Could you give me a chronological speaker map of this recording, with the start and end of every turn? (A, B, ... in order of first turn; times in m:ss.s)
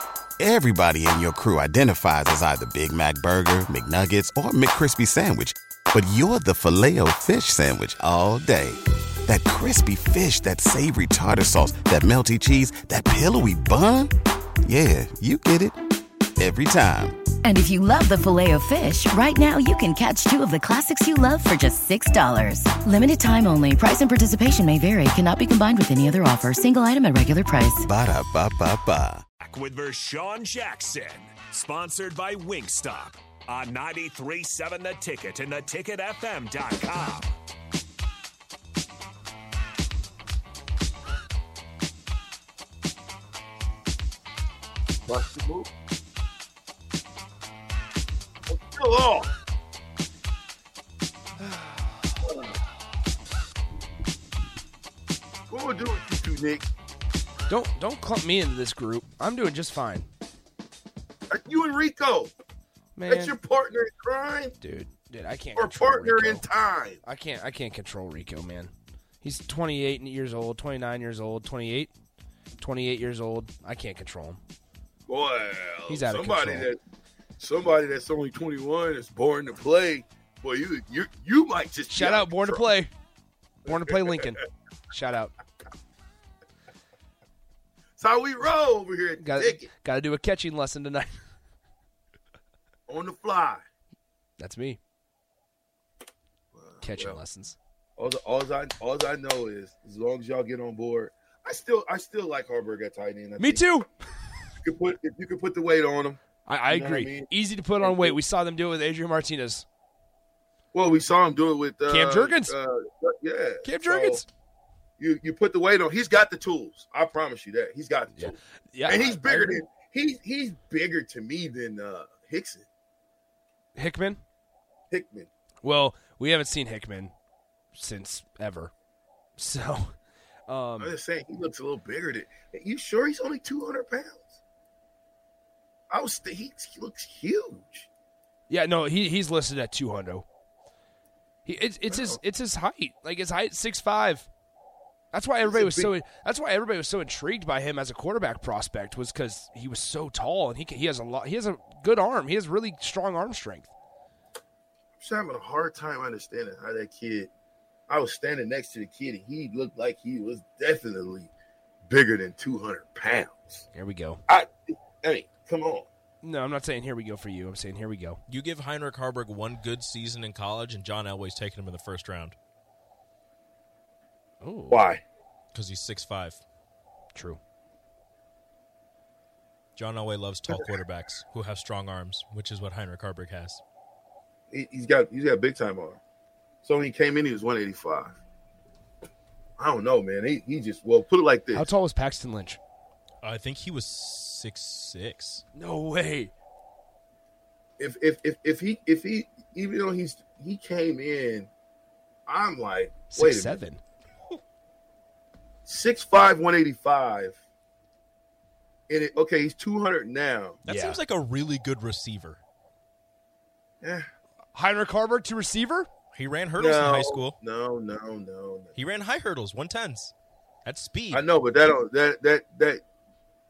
0:00.4-0:14.1 A
0:14.6-0:15.8 A
0:16.4-0:17.2 A
0:17.4-0:27.8 B
0:27.8-0:29.2 A
0:29.4-0:37.4 C
0:45.1-0:45.7 D
0:48.5-0:49.3 D
0:52.2-0:52.5 D
0:55.5-0:56.7 D
0:57.5-1:00.1 E
1:01.3-1:02.3 D
1:03.0-1:03.4 E
1:03.1-1:04.6 D
1:04.6-1:06.5 E
1:05.6-1:07.0 D
1:07.0-1:11.9 E
1:12.6-1:14.4 E
1:15.1-1:16.8 D
1:15.9-1:16.7 E
1:17.4-1:22.7 D
1:21.9-1:22.9 E
1:23.6-1:25.3 E
1:28.0-1:29.7 D
1:29.2-1:31.2 E
1:32.9-1:33.6 D
1:34.4-1:34.8 E
1:36.5-1:37.2 D
1:36.8-1:37.6 E
1:38.0-1:43.8 D
1:43.4-1:43.9 E
1:44.6-1:46.2 D
1:46.5-1:49.6 E
1:46.7-1:48.2 D
1:50.7-1:54.2 D
1:51.9-1:52.6 E
1:53.6-1:54.3 E
1:55.0-2:02.7 D
1:58.2-1:59.6 E
2:03.8-2:04.2 E
2:04.9-2:05.3 D
2:05.6-2:07.1 E
2:07.7-2:08.7 E
2:09.4-2:09.9 E
2:10.5-2:11.0 E
2:10.8-2:14.4 D
2:15.9-2:17.9 D
2:18.5-2:20.3 E
2:21.5-2:24.3 E
2:21.9-2:22.2 D
2:25.1-2:33.7 E
2:25.4-2:25.9 D
2:35.0-2:37.3 D
2:37.9-2:41.3 D
2:41.9-2:43.6 D
2:43.7-2:44.2 E
2:44.3-2:45.9 D
2:46.2-2:48.2 E
2:48.3-2:52.4 F
2:54.4-2:54.9 E
2:54.7-2:55.0 D
2:55.5-2:56.4 F
2:59.8-3:03.6 F
3:04.5-3:06.0 D
3:06.6-3:08.2 D
3:09.6-3:11.7 D
3:11.5-3:12.6 E
3:13.2-3:15.4 F
3:15.6-3:16.3 E
3:17.8-3:21.5 D
3:22.3-3:23.6 D
3:23.1-3:23.8 E
3:25.7-3:27.4 D
3:28.9-3:30.6 D
3:30.6-3:32.4 F
3:30.7-3:31.0 E
3:34.5-3:35.9 E
3:36.1-3:37.4 F
3:36.6-3:38.8 D
3:38.8-3:40.1 F
3:40.6-3:41.3 F
3:41.1-3:42.8 D